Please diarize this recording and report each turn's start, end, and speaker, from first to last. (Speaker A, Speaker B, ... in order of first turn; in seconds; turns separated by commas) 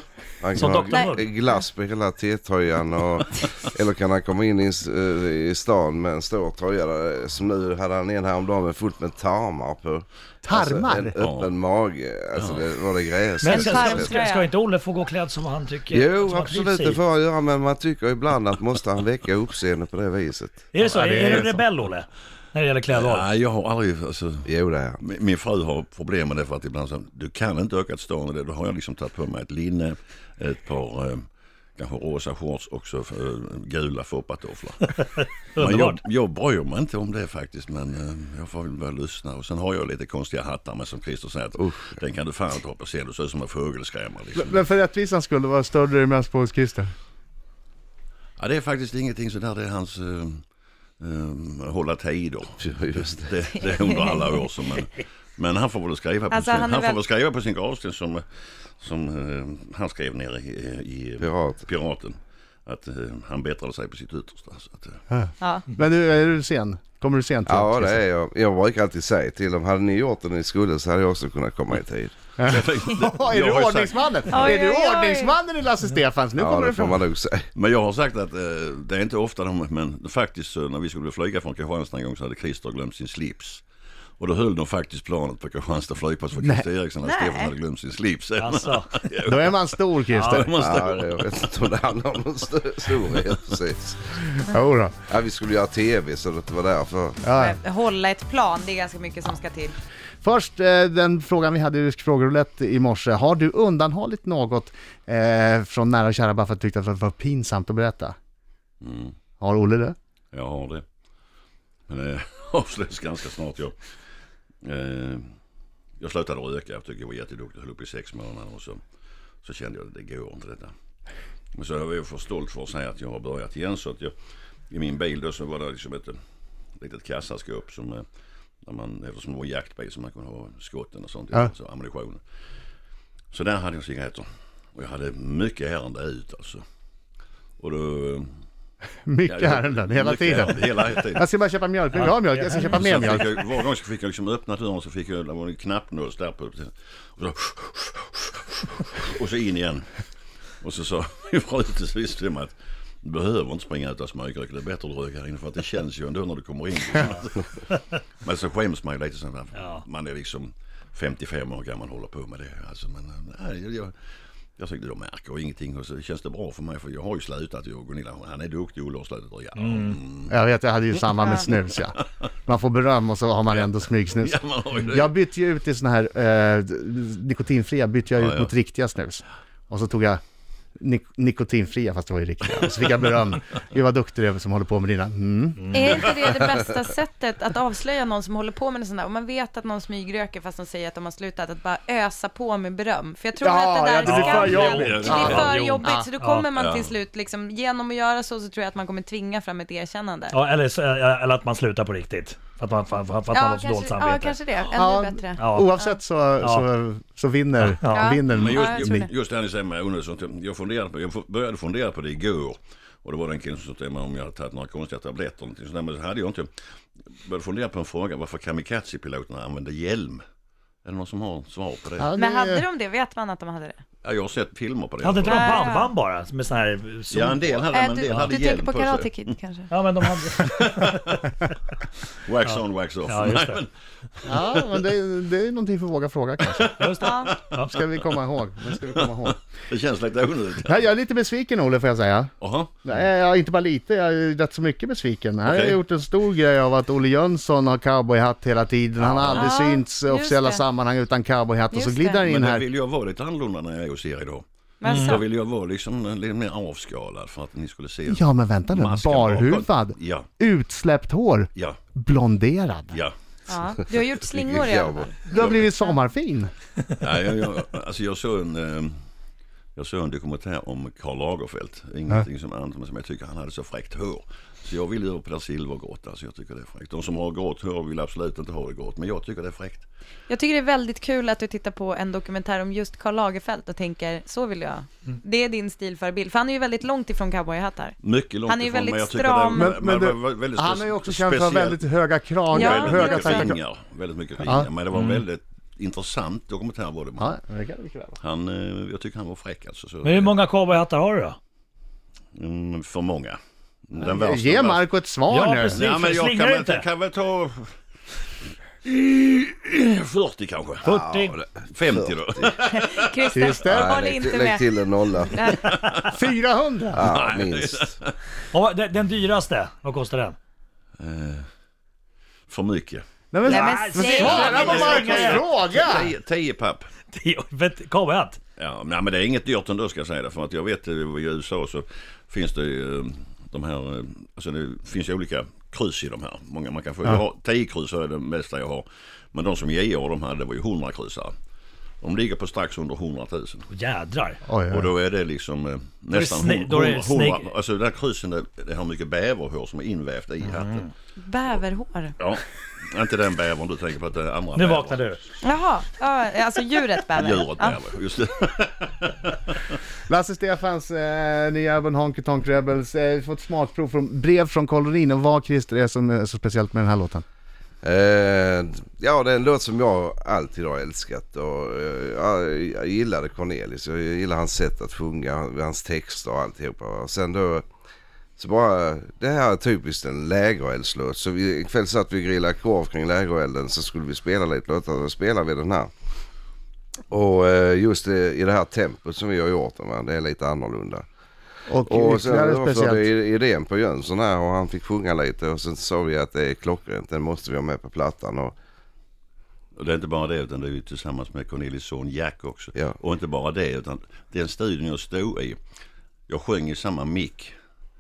Speaker A: 0.4-14.2, Speaker B: 0.6-1.3, Speaker C: 0.9-1.1, Speaker D: 10.4-11.1, Speaker E: 11.2-11.5, Speaker E: 12.4-12.7, Speaker B: 13.4-17.0, Speaker C: 13.4-14.5, Speaker A: 15.9-20.6, Speaker B: 20.7-23.3, Speaker D: 20.9-21.6, Speaker E: 21.1-21.4, Speaker E: 22.9-31.2, Speaker A: 24.5-25.0, Speaker E: 31.8-44.6, Speaker B: 35.6-36.0, Speaker A: 41.6-41.9, Speaker D: 44.4-46.9, Speaker E: 48.4-50.4, Speaker E: 51.0-58.2, Speaker A: 52.6-53.2, Speaker C: 53.7-54.2, Speaker C: 56.3-57.0, Speaker E: 58.8-65.0, Speaker A: 61.2-61.7, Speaker D: 65.1-68.0, Speaker C: 65.4-65.7, Speaker A: 67.5-72.1, Speaker D: 72.4-77.0, Speaker E: 72.5-74.5, Speaker C: 74.3-75.4, Speaker A: 76.4-77.5, Speaker E: 77.5-83.6, Speaker E: 84.2-91.6, Speaker D: 86.4-86.7, Speaker C: 87.0-87.5, Speaker B: 88.4-89.1, Speaker D: 89.2-90.6, Speaker B: 90.1-90.4, Speaker A: 90.5-94.0, Speaker E: 93.1-93.4, Speaker D: 94.2-95.0, Speaker A: 95.1-97.2, Speaker D: 97.2-97.6, Speaker C: 97.3-99.8, Speaker D: 100.2-108.2, Speaker E: 108.8-109.2, Speaker D: 109.4-110.0, Speaker E: 110.3-110.8, Speaker E: 111.9-113.8, Speaker E: 114.6-115.3, Speaker E: 116.0-118.8, Speaker E: 119.4-120.7, Speaker E: 121.5-124.1, Speaker E: 124.7-126.2, Speaker E: 126.8-128.0, Speaker E: 128.6-132.2, Speaker E: 133.3-136.6, Speaker E: 137.6-138.3, Speaker D: 139.1-143.3, Speaker E: 139.3-141.3, Speaker B: 142.0-142.8, Speaker E: 142.7-149.9, Speaker E: 150.6-163.9, Speaker B: 159.6-159.8, Speaker E: 164.6-170.4, Speaker B: 169.6-170.0, Speaker D: 170.3-180.2, Speaker C: 171.2-171.5, Speaker E: 173.5-175.2, Speaker E: 178.2-178.5, Speaker D: 180.8-186.1, Speaker B: 185.6-185.9, Speaker C: 185.7-200.4, Speaker D: 193.4-196.1, Speaker B: 194.0-196.5, Speaker E: 194.7-195.7, Speaker E: 196.5-196.9, Speaker B: 200.3-204.4, Speaker C: 203.3-206.0, Speaker D: 204.8-209.1, Speaker B: 205.4-205.7, Speaker B: 206.4-206.7, Speaker B: 207.6-208.1, Speaker C: 207.8-209.1, Speaker E: 208.3-216.5, Speaker E: 217.1-220.2, Speaker E: 220.8-222.1, Speaker D: 222.0-222.7, Speaker C: 222.2-223.8, Speaker E: 224.0-225.6, Speaker B: 225.0-227.5, Speaker C: 225.2-225.9, Speaker E: 227.1-229.4, Speaker C: 227.7-229.7, Speaker B: 228.0-228.4, Speaker B: 229.7-230.9, Speaker E: 230.0-231.3, Speaker E: 232.1-234.5, Speaker B: 233.1-233.6, Speaker D: 234.3-239.4, Speaker E: 236.5-238.2, Speaker B: 236.8-237.8, Speaker C: 237.0-237.4, Speaker E: 238.7-240.9, Speaker D: 240.7-242.3, Speaker E: 242.4-242.8, Speaker D: 242.8-252.7, Speaker E: 245.4-245.8, Speaker E: 249.0-249.6, Speaker C: 249.3-250.7, Speaker C: 251.7-252.3, Speaker E: 252.2-260.3, Speaker C: 254.8-255.2, Speaker B: 254.9-255.2, Speaker D: 258.1-263.0, Speaker C: 263.5-265.2, Speaker A: 264.3-265.1, Speaker D: 265.3-266.5, Speaker E: 265.4-265.7, Speaker E: 267.0-269.0, Speaker E: 269.8-279.9, Speaker C: 280.3-289.8, Speaker E: 288.0-291.9, Speaker D: 289.6-293.6, Speaker C: 292.5-293.5, Speaker E: 292.5-297.3, Speaker D: 294.4-294.8, Speaker B: 294.9-295.2, Speaker D: 297.2-298.2, Speaker E: 298.2-300.4, Speaker B: 300.0-301.4, Speaker E: 302.4-305.0, Speaker D: 304.0-305.8, Speaker B: 305.3-306.9, Speaker E: 305.7-307.7, Speaker E: 308.8-310.9, Speaker B: 310.9-311.4, Speaker A: 310.9-312.5, Speaker E: 311.6-313.3, Speaker C: 312.6-314.7, Speaker D: 313.3-313.9, Speaker A: 313.6-315.5, Speaker C: 315.2-315.8, Speaker E: 315.7-316.1, Speaker D: 316.0-317.0, Speaker A: 316.9-317.9, Speaker E: 317.0-318.2, Speaker B: 318.5-320.4, Speaker E: 321.0-321.5, Speaker E: 322.5-323.0, Speaker D: 323.3-326.1, Speaker C: 323.4-325.1, Speaker B: 323.5-325.4, Speaker E: 324.1-326.9, Speaker B: 327.1-328.4, Speaker E: 328.6-341.3, Speaker E: 342.0-343.7, Speaker B: 343.7-344.4, Speaker D: 344.4-344.9, Speaker E: 344.7-350.9, Speaker B: 346.1-347.5, Speaker B: 350.5-350.9, Speaker C: 351.2-352.1, Speaker E: 352.2-355.1, Speaker B: 354.6-355.2, Speaker C: 355.4-357.8, Speaker E: 357.1-359.8, Speaker D: 360.1-367.2, Speaker A: 367.8-377.6, Speaker A: 378.4-385.9, Speaker A: 387.1-391.1, Speaker D: 391.7-393.1, Speaker A: 391.9-398.6, Speaker E: 399.8-405.6, Speaker E: 406.3-407.6